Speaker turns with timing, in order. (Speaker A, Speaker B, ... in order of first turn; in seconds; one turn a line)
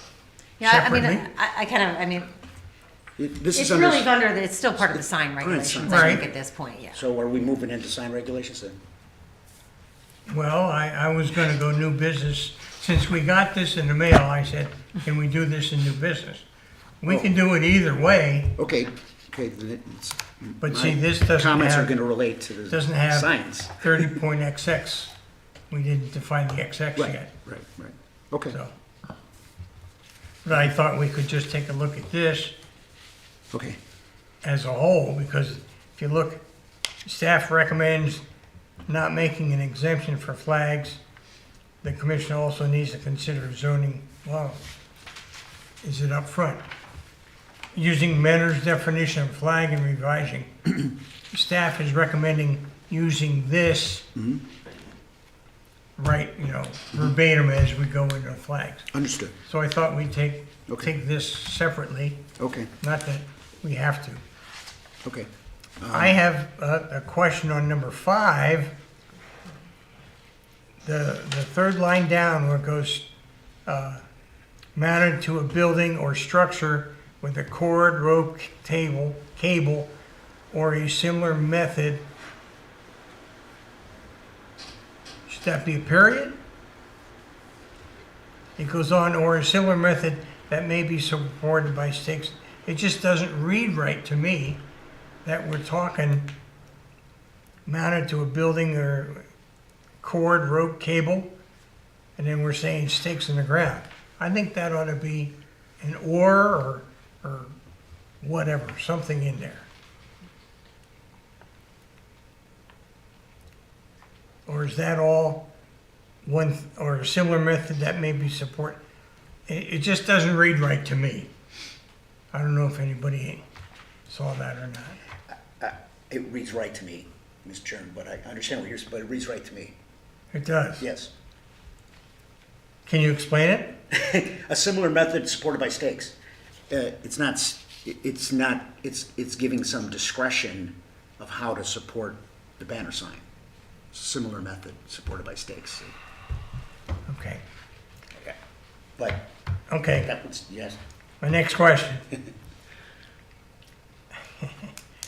Speaker A: 0.6-2.3
Speaker B: 0.6-1.3
Speaker C: 3.2-6.3
Speaker A: 3.5-7.0
Speaker B: 5.8-6.2
Speaker C: 6.9-8.8
Speaker B: 10.3-16.4
Speaker B: 17.0-18.6
Speaker C: 18.6-24.1
Speaker B: 20.6-22.0
Speaker B: 22.7-25.1
Speaker B: 25.7-27.3
Speaker C: 26.9-28.6
Speaker B: 30.4-32.5
Speaker C: 33.5-33.8
Speaker B: 34.4-36.4
Speaker B: 37.0-38.2
Speaker B: 38.9-41.0
Speaker B: 41.8-44.6
Speaker B: 45.8-46.6
Speaker B: 47.7-50.5
Speaker B: 51.3-54.1
Speaker C: 54.1-54.4
Speaker B: 56.0-58.9
Speaker C: 58.9-59.3
Speaker B: 59.4-62.2
Speaker C: 62.4-62.7
Speaker B: 62.8-64.2
Speaker C: 65.0-66.2
Speaker B: 65.9-68.7
Speaker B: 70.8-73.1
Speaker B: 73.7-74.0
Speaker B: 74.7-79.9
Speaker B: 80.5-82.1
Speaker B: 85.3-86.4
Speaker B: 88.6-94.6
Speaker B: 95.2-96.3
Speaker B: 97.7-99.3
Speaker B: 100.0-101.3
Speaker B: 102.2-107.5
Speaker B: 108.2-109.7
Speaker B: 114.5-115.5
Speaker B: 116.2-118.8
Speaker B: 119.5-121.3
Speaker B: 122.3-123.4
Speaker B: 124.1-125.0
Speaker C: 125.6-129.7
Speaker B: 130.3-130.8
Speaker C: 130.8-131.1
Speaker B: 132.8-133.8
Speaker C: 133.9-136.1
Speaker C: 136.7-143.2
Speaker C: 143.9-145.9
Speaker B: 147.1-147.4
Speaker C: 149.0-149.3
Speaker B: 149.7-150.1
Speaker C: 150.0-150.8
Speaker B: 151.2-152.1
Speaker B: 154.4-154.7